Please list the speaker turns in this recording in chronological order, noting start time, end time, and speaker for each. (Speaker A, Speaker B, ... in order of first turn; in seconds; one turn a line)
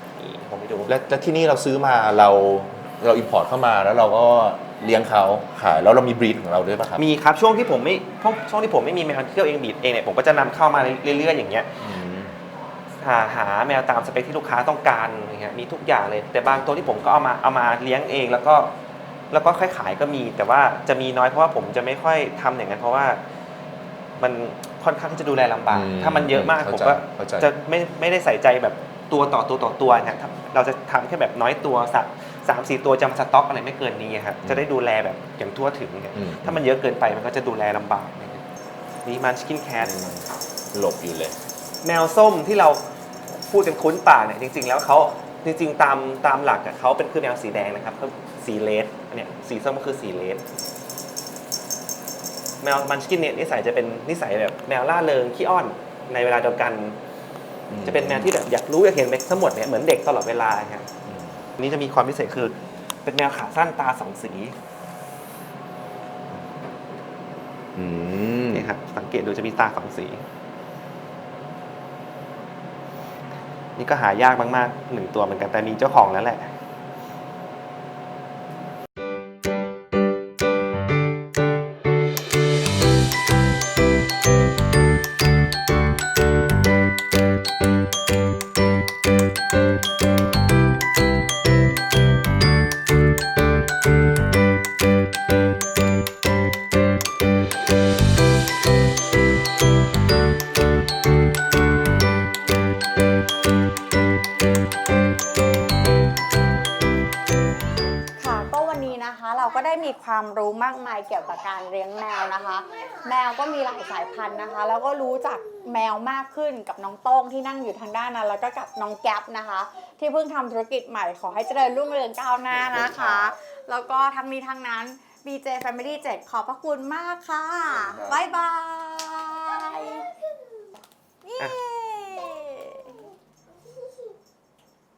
Speaker A: 0.1-0.9
Speaker B: 0.8-7.0
Speaker A: 6.9-11.8
Speaker B: 11.8-12.3
Speaker A: 13.0-18.7
Speaker A: 19.3-23.2
Speaker A: 24.2-38.4
Speaker B: 25.7-27.5
Speaker B: 36.1-36.6
Speaker A: 39.0-40.0
Speaker B: 39.8-41.4
Speaker A: 41.8-50.4
Speaker A: 52.6-57.0
Speaker B: 57.7-58.3
Speaker A: 57.8-60.9
Speaker B: 61.0-61.4
Speaker A: 61.6-64.6
Speaker B: 67.7-68.7
Speaker A: 68.5-70.2
Speaker A: 73.8-76.5
Speaker C: 108.2-130.1
Speaker A: 122.5-123.3
Speaker A: 127.7-128.2
Speaker C: 131.2-133.0